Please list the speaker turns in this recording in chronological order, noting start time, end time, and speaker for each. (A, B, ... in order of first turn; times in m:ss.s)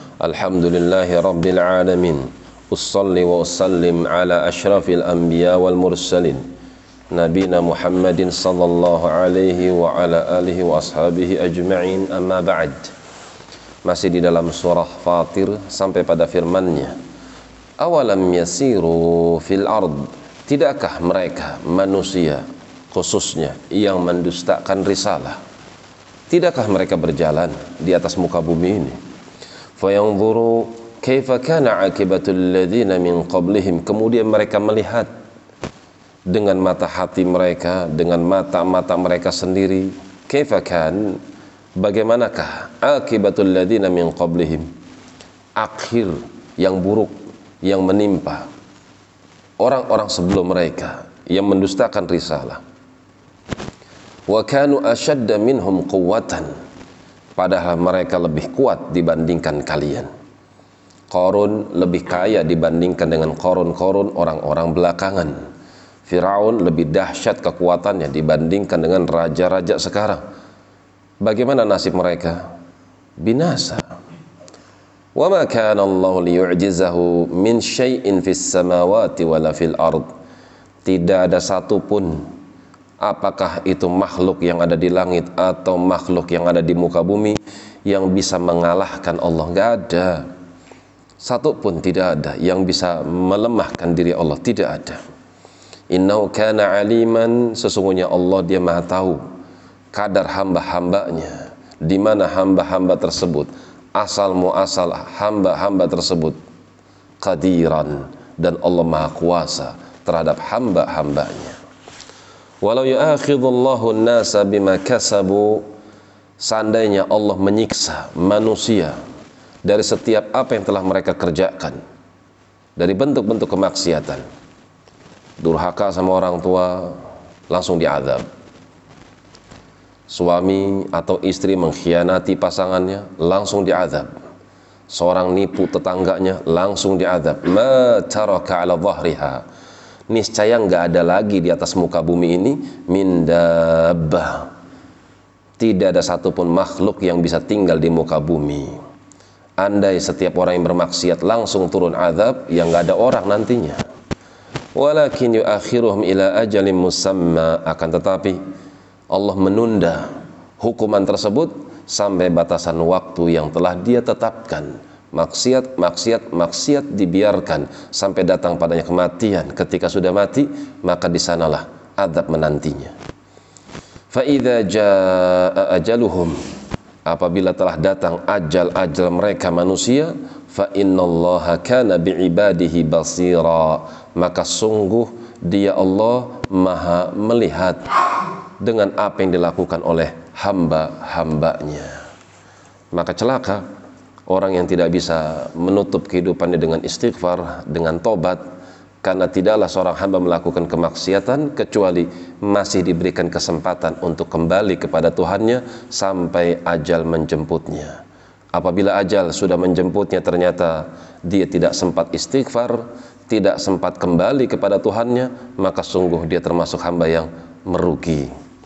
0:00.2-0:06.4 A
0:07.1-0:12.9 A
0:13.8-0:17.0 A
0:17.8-0:25.4 A
0:26.3-0:29.0 A
0:29.8-0:35.1 A
0:36.3-0:41.2 A
0:41.8-0:44.7 A
0:45.6-0:48.5 A
0:49.6-0:52.6 A
0:54.3-0:56.5 A
0:57.4-1:00.1 A
1:01.1-1:05.4 A
1:06.0-1:10.2 A
1:11.2-1:12.4 A
1:13.2-1:13.8 A
1:15.1-1:20.1 A
1:20.8-1:22.3 A
1:23.0-1:30.2 A
1:31.2-1:35.0 A
1:35.9-1:39.2 A
1:39.9-1:46.4 A
1:47.2-1:51.6 A
1:52.6-1:55.7 A
1:56.4-1:59.0 A
1:59.6-2:01.8 A
2:02.8-2:04.2 A
2:05.4-2:07.0 A
2:07.5-2:08.2 A
2:10.1-2:14.1 A
2:14.9-2:19.4 A
2:20.1-2:24.5 A
2:25.6-2:28.8 A
2:29.6-2:33.8 A
2:34.7-2:38.4 A
2:39.1-2:52.9 A
2:54.1-2:56.4 A
2:57.0-3:07.8 A
3:08.6-3:12.0 A
3:12.9-3:13.6 A
3:14.3-3:18.4 A
3:19.0-3:28.0 A
3:28.5-3:38.3 A